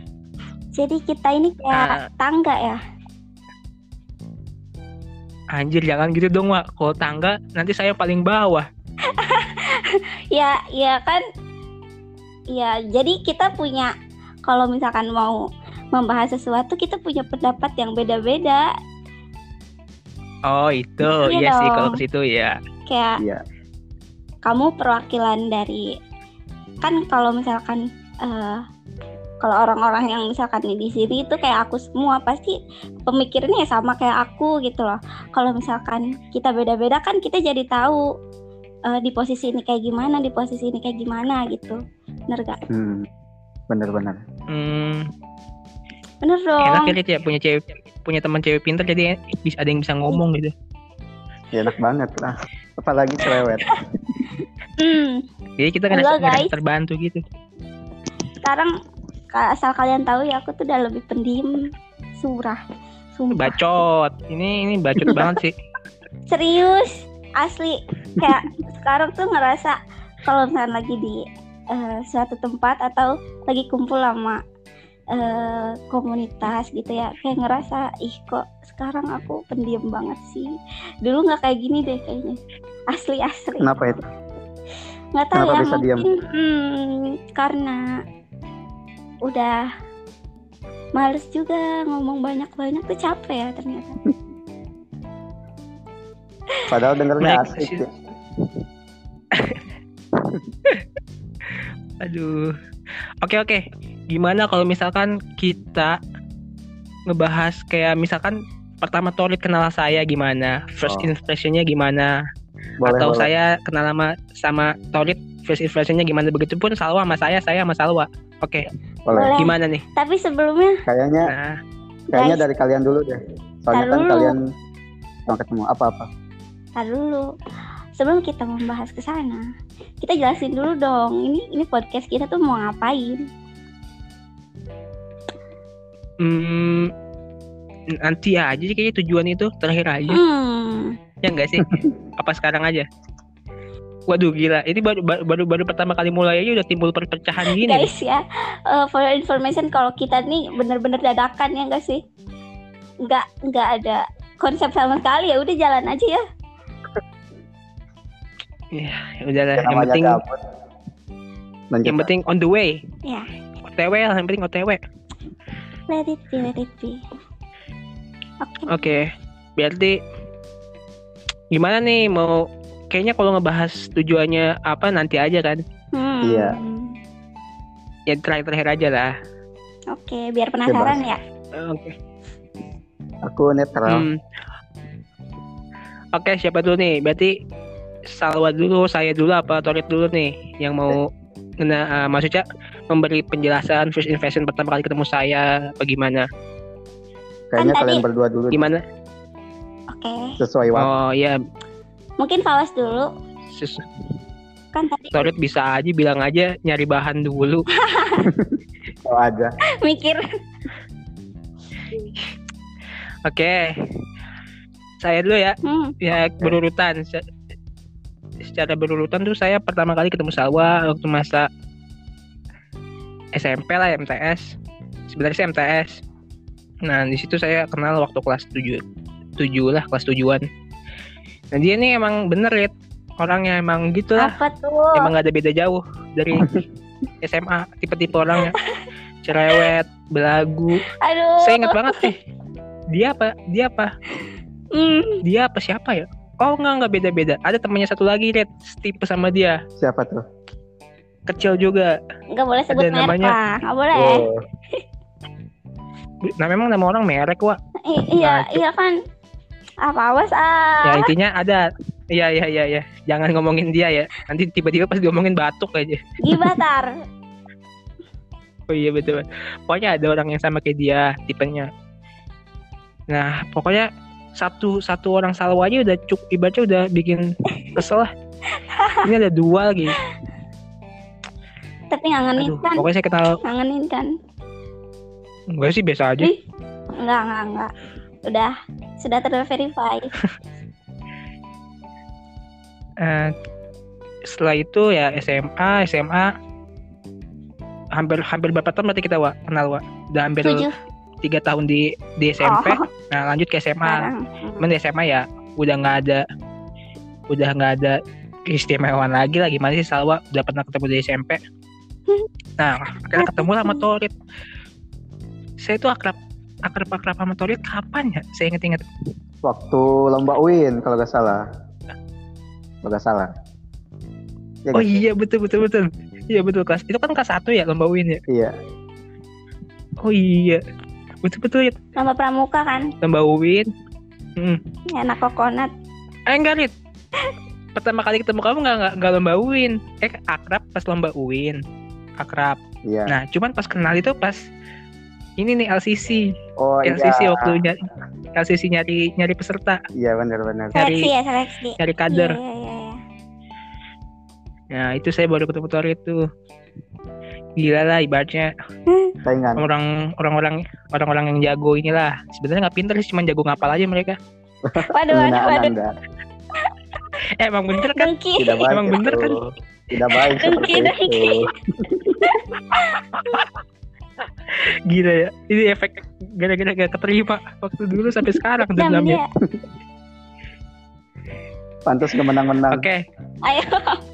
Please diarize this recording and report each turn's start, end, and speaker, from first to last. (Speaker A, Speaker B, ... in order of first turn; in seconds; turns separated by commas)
Speaker A: 0.8-2.8, Speaker B: 1.7-2.0, Speaker B: 5.5-8.7, Speaker A: 9.1-11.2, Speaker A: 12.5-13.9, Speaker A: 14.4-15.4, Speaker A: 15.9-18.7, Speaker B: 20.5-22.6, Speaker A: 21.1-22.0, Speaker A: 22.9-23.2, Speaker C: 23.2-23.4, Speaker A: 24.4-25.9, Speaker A: 26.8-28.6, Speaker A: 29.4-38.0, Speaker A: 38.9-41.8, Speaker A: 42.3-42.6, Speaker C: 42.7-43.1, Speaker C: 43.7-44.2, Speaker B: 44.5-45.1, Speaker A: 46.2-47.0, Speaker B: 46.6-50.5, Speaker C: 51.5-53.8, Speaker A: 54.8-55.2, Speaker B: 55.6-57.2, Speaker A: 55.9-56.5, Speaker A: 58.4-58.7, Speaker A: 59.3-62.6, Speaker A: 63.2-63.5, Speaker B: 63.3-65.6, Speaker A: 66.3-74.4, Speaker A: 75.1-80.5, Speaker A: 81.0-82.4, Speaker A: 82.9-83.7, Speaker C: 83.6-84.1, Speaker A: 85.2-88.0, Speaker C: 85.3-86.1, Speaker A: 89.2-89.7, Speaker A: 91.0-94.0, Speaker C: 96.7-97.9, Speaker B: 97.2-97.8, Speaker B: 99.3-99.6, Speaker C: 100.2-100.5, Speaker B: 102.0-102.5, Speaker B: 103.2-106.0, Speaker B: 107.1-112.2, Speaker C: 110.9-111.1, Speaker C: 112.8-113.3, Speaker B: 112.8-118.7, Speaker C: 119.1-119.3, Speaker A: 119.1-120.8, Speaker B: 119.4-119.8, Speaker C: 120.9-121.3, Speaker B: 121.3-121.6, Speaker C: 122.1-124.4, Speaker A: 122.1-122.5, Speaker A: 123.7-124.3, Speaker C: 125.3-126.1, Speaker A: 126.8-127.3, Speaker A: 128.0-129.5, Speaker A: 130.0-133.3, Speaker B: 136.2-136.9, Speaker B: 137.9-140.2, Speaker A: 140.1-140.9, Speaker B: 141.2-142.9, Speaker B: 144.1-147.9, Speaker A: 147.4-152.0, Speaker A: 153.0-156.2, Speaker B: 158.7-160.2, Speaker C: 159.6-160.4, Speaker C: 161.7-162.1, Speaker B: 161.9-162.9, Speaker B: 163.6-164.8, Speaker A: 165.9-167.0, Speaker A: 168.4-168.9, Speaker B: 168.7-170.0, Speaker B: 171.5-175.6, Speaker A: 175.9-177.0, Speaker C: 176.2-176.6, Speaker B: 178.1-179.1, Speaker A: 179.9-181.2, Speaker C: 180.7-181.0, Speaker B: 181.5-182.0, Speaker C: 183.2-184.1, Speaker B: 183.9-184.2, Speaker B: 186.1-187.4, Speaker B: 188.1-191.1, Speaker B: 191.6-196.3, Speaker C: 197.5-198.7, Speaker A: 197.6-198.0, Speaker B: 198.5-198.8, Speaker A: 199.9-200.4, Speaker C: 200.4-200.9, Speaker B: 200.8-201.4, Speaker A: 202.2-203.1, Speaker B: 203.5-203.9, Speaker A: 204.7-205.3, Speaker B: 205.1-207.7, Speaker A: 207.8-208.3, Speaker C: 208.3-209.6, Speaker A: 209.8-210.2, Speaker B: 213.2-213.8, Speaker B: 215.0-217.2, Speaker A: 215.6-215.9, Speaker B: 218.4-221.5, Speaker B: 223.3-224.6, Speaker B: 225.1-226.0, Speaker B: 226.8-228.8, Speaker B: 229.4-230.4, Speaker B: 231.5-234.4, Speaker A: 234.2-235.1, Speaker B: 234.9-236.6, Speaker B: 237.2-238.6, Speaker A: 238.4-238.9, Speaker B: 239.2-240.8, Speaker A: 240.9-242.1, Speaker B: 241.4-242.2, Speaker B: 242.9-243.9, Speaker A: 244.7-245.2, Speaker B: 245.2-249.6, Speaker C: 249.8-250.2, Speaker B: 251.3-252.0, Speaker A: 252.3-254.2, Speaker B: 252.7-253.3, Speaker C: 253.9-254.4, Speaker B: 256.2-257.6, Speaker A: 257.8-259.0, Speaker B: 258.2-258.6, Speaker A: 259.8-261.1, Speaker B: 260.8-266.6, Speaker A: 266.2-266.9, Speaker B: 268.7-271.7, Speaker B: 273.1-278.1, Speaker A: 278.6-279.1, Speaker B: 279.0-280.0, Speaker A: 281.9-282.9, Speaker B: 282.4-283.4, Speaker A: 283.4-284.1, Speaker B: 285.5-286.3, Speaker A: 287.0-287.7, Speaker A: 288.3-290.1, Speaker B: 293.0-293.3, Speaker B: 294.3-296.3, Speaker B: 297.9-300.7, Speaker A: 300.4-300.7, Speaker B: 301.2-306.2, Speaker A: 302.4-302.9, Speaker A: 303.8-304.6, Speaker B: 307.3-311.4, Speaker B: 312.6-314.1, Speaker A: 313.2-313.8, Speaker B: 315.6-318.9, Speaker C: 319.4-321.4, Speaker C: 322.8-323.3, Speaker C: 324.6-325.0, Speaker B: 324.7-328.2, Speaker C: 328.3-328.6, Speaker B: 330.0-330.6, Speaker B: 331.2-331.8, Speaker A: 332.0-332.9, Speaker B: 333.0-333.7, Speaker A: 334.9-335.7, Speaker B: 336.3-336.7, Speaker B: 337.8-341.6, Speaker B: 342.2-344.5, Speaker C: 342.9-343.2, Speaker B: 345.4-346.3, Speaker C: 346.6-347.7, Speaker B: 346.9-347.8, Speaker B: 348.4-349.8, Speaker C: 350.0-350.8, Speaker B: 350.8-351.1, Speaker A: 350.8-353.0, Speaker B: 351.8-352.4, Speaker B: 354.7-356.2, Speaker B: 357.6-358.5, Speaker C: 359.2-359.7, Speaker B: 359.6-364.2, Speaker C: 364.6-365.9, Speaker A: 364.9-365.7, Speaker B: 367.4-368.1, Speaker A: 367.8-368.7, Speaker C: 368.4-372.2, Speaker B: 368.7-369.4, Speaker A: 370.2-371.5, Speaker A: 372.2-373.1, Speaker B: 373.1-373.5, Speaker B: 374.5-379.2, Speaker A: 378.7-379.3, Speaker C: 381.9-382.9, Speaker B: 382.7-383.0, Speaker A: 383.4-384.0